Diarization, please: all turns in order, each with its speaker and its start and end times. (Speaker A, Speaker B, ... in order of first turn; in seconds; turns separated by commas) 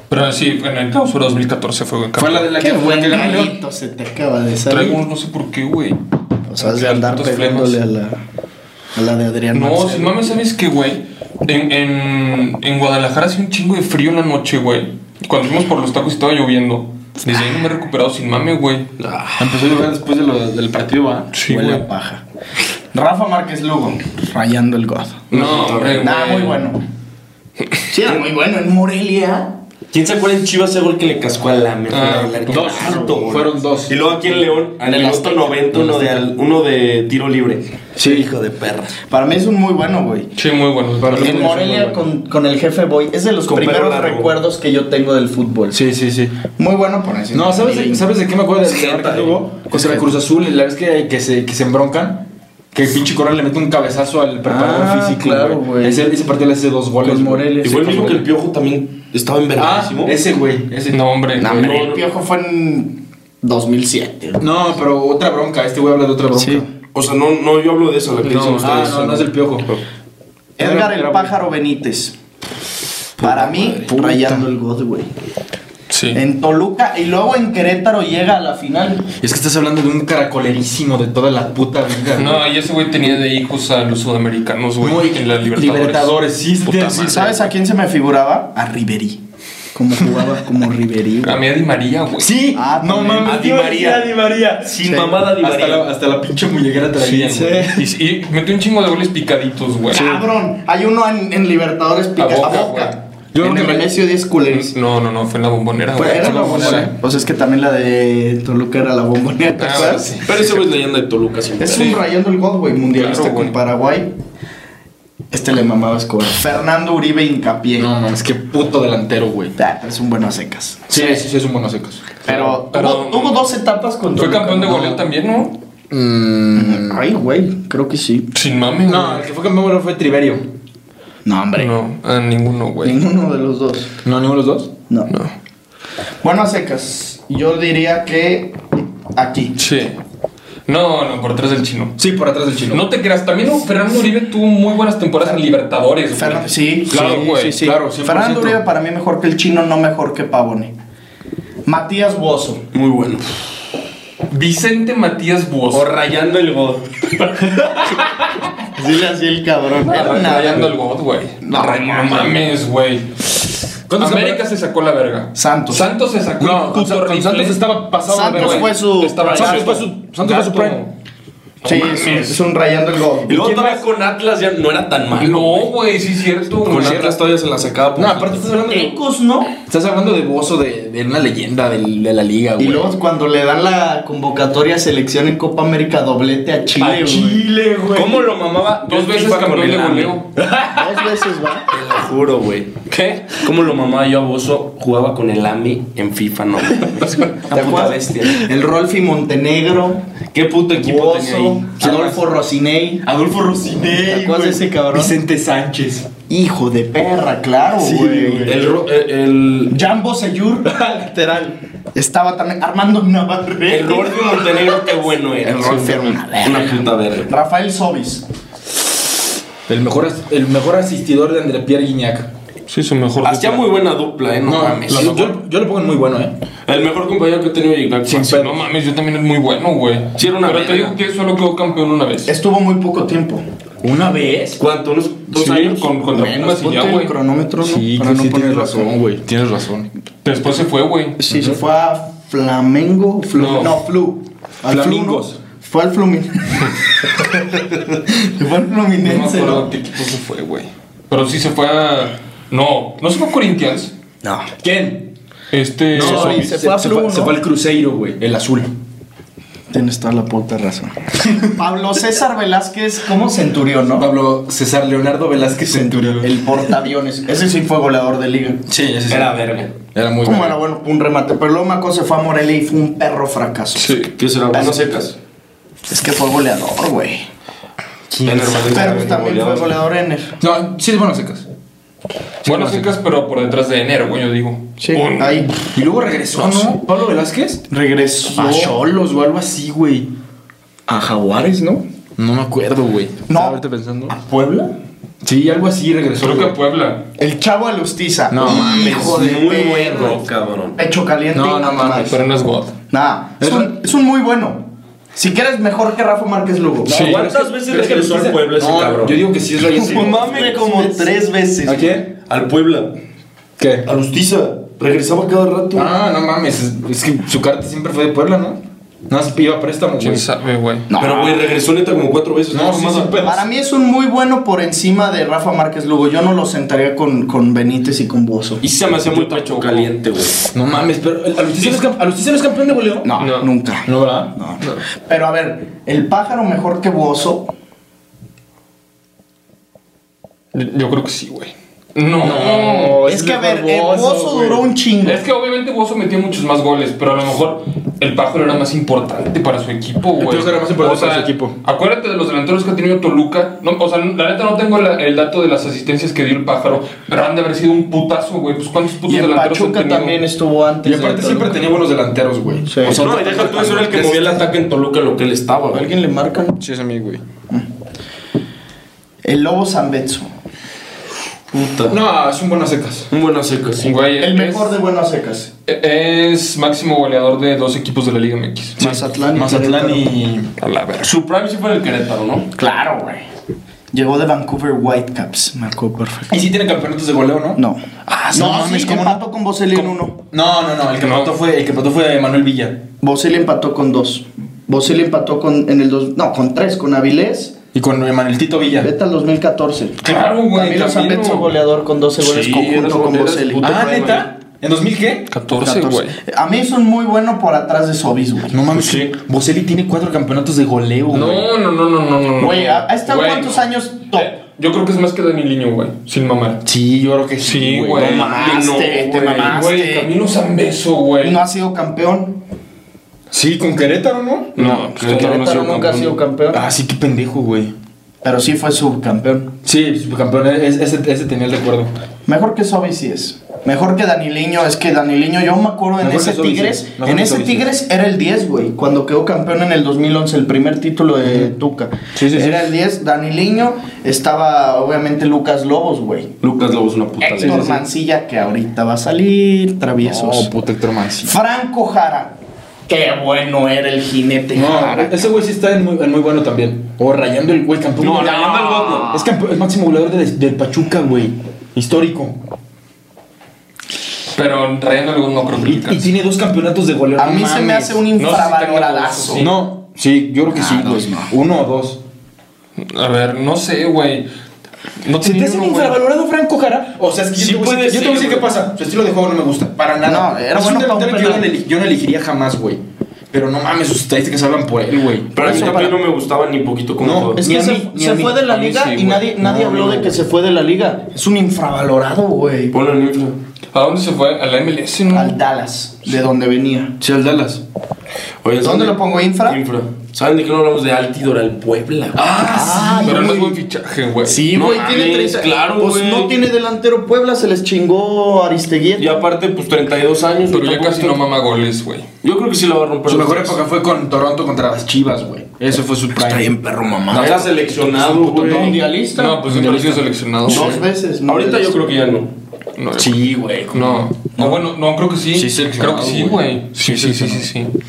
Speaker A: 0.1-2.5, Speaker B: 2.2-3.5, Speaker C: 2.6-5.0, Speaker A: 4.7-6.0, Speaker C: 6.5-8.2, Speaker A: 6.6-7.8, Speaker C: 8.9-10.1, Speaker A: 9.5-18.9, Speaker D: 19.0-19.6, Speaker B: 19.4-21.5, Speaker A: 21.3-21.8, Speaker C: 21.5-22.2, Speaker C: 22.9-25.3, Speaker D: 25.3-26.1, Speaker A: 25.3-26.6, Speaker C: 25.9-26.8, Speaker C: 27.9-29.6, Speaker D: 29.9-39.0, Speaker A: 31.9-32.6, Speaker C: 32.1-33.3, Speaker B: 32.5-34.0, Speaker C: 34.8-36.2, Speaker B: 38.0-38.3, Speaker C: 39.0-40.3, Speaker A: 40.4-41.6, Speaker B: 41.0-42.0, Speaker C: 41.1-45.8, Speaker D: 43.5-44.3, Speaker B: 45.7-46.4, Speaker C: 46.5-48.1, Speaker B: 47.3-58.2, Speaker D: 48.6-49.4, Speaker C: 49.7-50.1, Speaker C: 54.5-56.1, Speaker C: 57.0-58.2, Speaker D: 57.6-60.2, Speaker B: 59.5-61.0, Speaker A: 60.9-61.7, Speaker C: 61.4-64.5, Speaker D: 61.4-62.0, Speaker B: 64.4-66.6, Speaker C: 66.3-66.7, Speaker D: 66.9-69.8, Speaker A: 68.2-68.8, Speaker B: 68.6-69.7, Speaker C: 70.6-72.2, Speaker B: 70.6-71.3, Speaker C: 73.2-75.1, Speaker B: 73.2-74.5, Speaker A: 75.9-76.2, Speaker C: 76.1-79.1, Speaker B: 79.2-82.4, Speaker A: 82.2-87.4, Speaker B: 84.8-87.4, Speaker C: 87.1-89.2, Speaker C: 89.7-91.4, Speaker A: 91.2-92.3, Speaker B: 92.2-97.8, Speaker C: 92.5-93.5, Speaker D: 93.2-95.8, Speaker C: 94.8-95.2, Speaker A: 97.0-100.2, Speaker C: 99.9-104.7, Speaker B: 99.9-100.2, Speaker A: 102.2-103.0, Speaker B: 103.3-103.9, Speaker A: 104.5-106.9, Speaker C: 105.9-110.2, Speaker B: 106.0-106.9, Speaker A: 109.6-110.5, Speaker D: 110.2-112.0, Speaker C: 111.6-114.1, Speaker A: 112.9-113.5, Speaker C: 115.3-117.9, Speaker B: 117.8-119.6, Speaker C: 119.6-121.2, Speaker B: 120.9-122.5, Speaker C: 122.2-125.0, Speaker A: 122.5-123.4, Speaker A: 124.2-125.6, Speaker B: 125.9-127.0, Speaker C: 126.5-128.3, Speaker A: 128.3-129.2, Speaker B: 128.8-130.5, Speaker C: 131.2-131.8, Speaker A: 131.6-133.0, Speaker C: 132.8-133.9, Speaker B: 134.0-134.7, Speaker C: 136.2-139.6, Speaker A: 139.6-140.0, Speaker A: 140.7-142.0, Speaker B: 142.0-142.8, Speaker A: 142.7-147.6, Speaker C: 146.1-150.7, Speaker B: 146.9-148.6, Speaker C: 151.7-152.6, Speaker D: 152.7-153.3, Speaker A: 154.3-155.9, Speaker D: 155.7-158.0, Speaker C: 158.8-160.7, Speaker A: 159.8-163.3, Speaker C: 161.4-162.4, Speaker B: 163.9-164.4, Speaker A: 164.0-167.6, Speaker C: 165.3-165.9, Speaker B: 166.4-168.7, Speaker C: 168.1-169.7, Speaker A: 168.3-170.9, Speaker B: 169.2-170.8, Speaker D: 169.4-169.7, Speaker A: 171.6-172.4, Speaker C: 171.6-173.6, Speaker D: 173.3-175.7, Speaker B: 173.4-173.8, Speaker A: 175.2-177.1, Speaker D: 176.6-178.5, Speaker B: 176.7-177.2, Speaker B: 177.9-179.0, Speaker C: 178.7-179.5, Speaker B: 179.7-182.9, Speaker C: 182.6-187.4, Speaker B: 186.8-188.3, Speaker D: 187.9-190.2, Speaker A: 188.8-190.3, Speaker B: 190.4-190.9, Speaker C: 190.7-191.7, Speaker D: 191.7-192.7, Speaker A: 192.9-193.4, Speaker D: 193.3-198.4, Speaker C: 197.5-200.0, Speaker D: 200.3-201.7, Speaker C: 200.8-203.0, Speaker B: 201.8-202.2, Speaker B: 203.0-206.1, Speaker C: 203.9-205.2, Speaker C: 206.3-208.7, Speaker B: 207.8-208.7, Speaker D: 208.4-209.8, Speaker C: 209.7-210.8, Speaker B: 210.6-211.5, Speaker C: 211.9-214.8, Speaker D: 213.7-217.3, Speaker C: 215.4-218.2, Speaker A: 215.6-215.9, Speaker B: 219.7-222.3, Speaker A: 222.7-223.7, Speaker D: 223.2-225.2, Speaker B: 224.4-226.3, Speaker A: 224.9-225.3, Speaker D: 226.7-228.4, Speaker B: 228.1-228.6, Speaker A: 228.3-232.3, Speaker D: 230.2-231.0, Speaker C: 232.2-233.4, Speaker B: 233.8-234.6, Speaker D: 234.6-235.9, Speaker A: 235.3-237.1, Speaker C: 236.1-238.9, Speaker B: 237.6-239.9, Speaker A: 240.2-241.2, Speaker C: 241.2-249.7, Speaker B: 241.3-241.6, Speaker A: 243.3-243.8, Speaker B: 244.7-245.4, Speaker A: 249.0-253.9, Speaker C: 254.2-254.5, Speaker B: 254.6-255.1, Speaker A: 255.5-256.5, Speaker C: 255.9-257.4, Speaker B: 255.9-258.7, Speaker C: 259.7-264.1, Speaker B: 261.2-261.5, Speaker B: 264.0-266.5, Speaker C: 265.6-268.6, Speaker B: 268.7-270.6, Speaker D: 269.1-269.7, Speaker C: 270.2-274.0, Speaker A: 273.8-274.1, Speaker D: 274.2-275.1, Speaker C: 274.5-274.8, Speaker C: 275.9-277.3, Speaker B: 278.1-279.0, Speaker D: 278.2-279.7, Speaker C: 278.7-280.3, Speaker B: 280.4-281.4, Speaker B: 282.4-282.9, Speaker A: 282.4-285.6, Speaker C: 284.8-285.6, Speaker B: 285.7-287.6, Speaker C: 287.7-288.8, Speaker B: 288.3-290.1, Speaker C: 290.9-291.8, Speaker B: 292.2-294.1, Speaker C: 293.3-294.7, Speaker B: 295.2-296.6, Speaker A: 296.2-297.1, Speaker C: 297.2-300.2, Speaker B: 298.3-299.2, Speaker D: 298.4-300.8, Speaker C: 300.8-302.2, Speaker B: 301.3-302.1, Speaker A: 302.0-302.7, Speaker C: 302.9-307.0, Speaker B: 303.4-303.7, Speaker B: 306.8-310.4, Speaker A: 306.9-307.2, Speaker D: 306.9-309.2, Speaker C: 309.7-311.8, Speaker D: 309.7-312.9, Speaker B: 311.6-312.1, Speaker B: 313.6-313.9, Speaker D: 313.8-315.9, Speaker B: 315.7-320.3, Speaker A: 320.0-320.9, Speaker C: 320.9-321.5, Speaker D: 320.9-323.2, Speaker B: 322.5-323.4, Speaker C: 323.2-328.6, Speaker D: 328.6-330.4, Speaker A: 329.1-329.9, Speaker B: 330.5-333.1, Speaker C: 333.0-337.5, Speaker A: 333.2-333.5, Speaker B: 333.9-334.3, Speaker A: 340.5-343.0, Speaker B: 342.2-344.6, Speaker C: 342.8-345.2, Speaker A: 345.0-360.2, Speaker B: 350.2-351.5, Speaker C: 359.0-361.7, Speaker B: 360.8-364.4, Speaker C: 362.6-363.1, Speaker D: 362.8-365.9, Speaker C: 365.7-366.6, Speaker B: 366.6-367.2, Speaker C: 369.2-370.3, Speaker D: 371.5-372.0, Speaker B: 371.9-373.1, Speaker D: 373.1-374.0, Speaker A: 373.8-374.7, Speaker C: 374.2-375.5, Speaker A: 375.7-378.8, Speaker C: 378.8-380.1, Speaker B: 378.8-380.5, Speaker A: 380.6-381.1, Speaker D: 381.0-382.5, Speaker C: 382.5-383.3, Speaker C: 383.9-386.4, Speaker B: 386.3-389.2, Speaker C: 387.6-390.2, Speaker B: 390.3-392.8, Speaker A: 391.0-391.3, Speaker C: 393.0-397.5, Speaker B: 397.7-398.9, Speaker C: 398.8-403.7, Speaker A: 400.0-401.5, Speaker D: 402.2-404.3, Speaker B: 403.6-405.3, Speaker A: 405.3-406.1, Speaker C: 405.6-408.6, Speaker B: 408.5-411.4, Speaker D: 408.7-409.1, Speaker A: 411.1-416.6, Speaker C: 412.4-414.3, Speaker B: 416.6-418.5, Speaker A: 417.4-418.3, Speaker C: 418.0-420.1, Speaker D: 418.0-419.6, Speaker A: 419.3-421.4, Speaker C: 421.2-422.4, Speaker B: 423.3-424.8, Speaker A: 424.6-426.1, Speaker D: 424.6-425.4, Speaker C: 424.9-426.7, Speaker B: 426.5-427.7, Speaker C: 428.2-429.5, Speaker B: 429.6-431.9, Speaker C: 432.2-446.3, Speaker B: 436.0-437.7, Speaker B: 441.2-441.5, Speaker B: 442.1-442.7, Speaker D: 446.4-447.8, Speaker C: 447.2-450.5, Speaker B: 447.4-447.8, Speaker B: 450.0-451.3, Speaker C: 451.2-452.4, Speaker C: 452.9-455.3, Speaker B: 454.5-462.4, Speaker D: 458.0-459.3, Speaker A: 464.3-466.1, Speaker B: 465.6-468.0, Speaker C: 467.2-469.5, Speaker A: 468.2-469.5, Speaker B: 469.4-472.0, Speaker C: 470.5-471.3, Speaker A: 472.8-474.3, Speaker A: 475.0-476.0, Speaker B: 475.2-482.8, Speaker D: 477.4-478.5, Speaker C: 480.0-481.5, Speaker B: 483.3-485.9, Speaker D: 485.3-487.4, Speaker C: 485.4-485.9, Speaker B: 487.0-488.4, Speaker C: 487.4-492.8, Speaker A: 488.4-489.3, Speaker B: 489.4-490.1, Speaker D: 492.7-493.4, Speaker A: 493.7-495.4, Speaker C: 495.1-496.9, Speaker B: 497.0-497.6, Speaker D: 498.4-502.5, Speaker C: 498.6-499.6, Speaker B: 502.1-503.4, Speaker C: 502.4-503.6, Speaker A: 503.0-504.5, Speaker C: 504.2-509.1, Speaker D: 504.5-506.3, Speaker D: 509.0-511.2, Speaker A: 510.5-512.0, Speaker D: 512.2-513.6, Speaker B: 513.1-518.8, Speaker C: 516.1-517.4, Speaker D: 517.1-518.8, Speaker C: 518.4-519.4, Speaker A: 519.1-520.8, Speaker B: 519.4-520.0, Speaker C: 520.5-521.8, Speaker D: 521.2-522.3, Speaker A: 522.8-527.7, Speaker B: 523.0-524.1, Speaker B: 525.3-527.5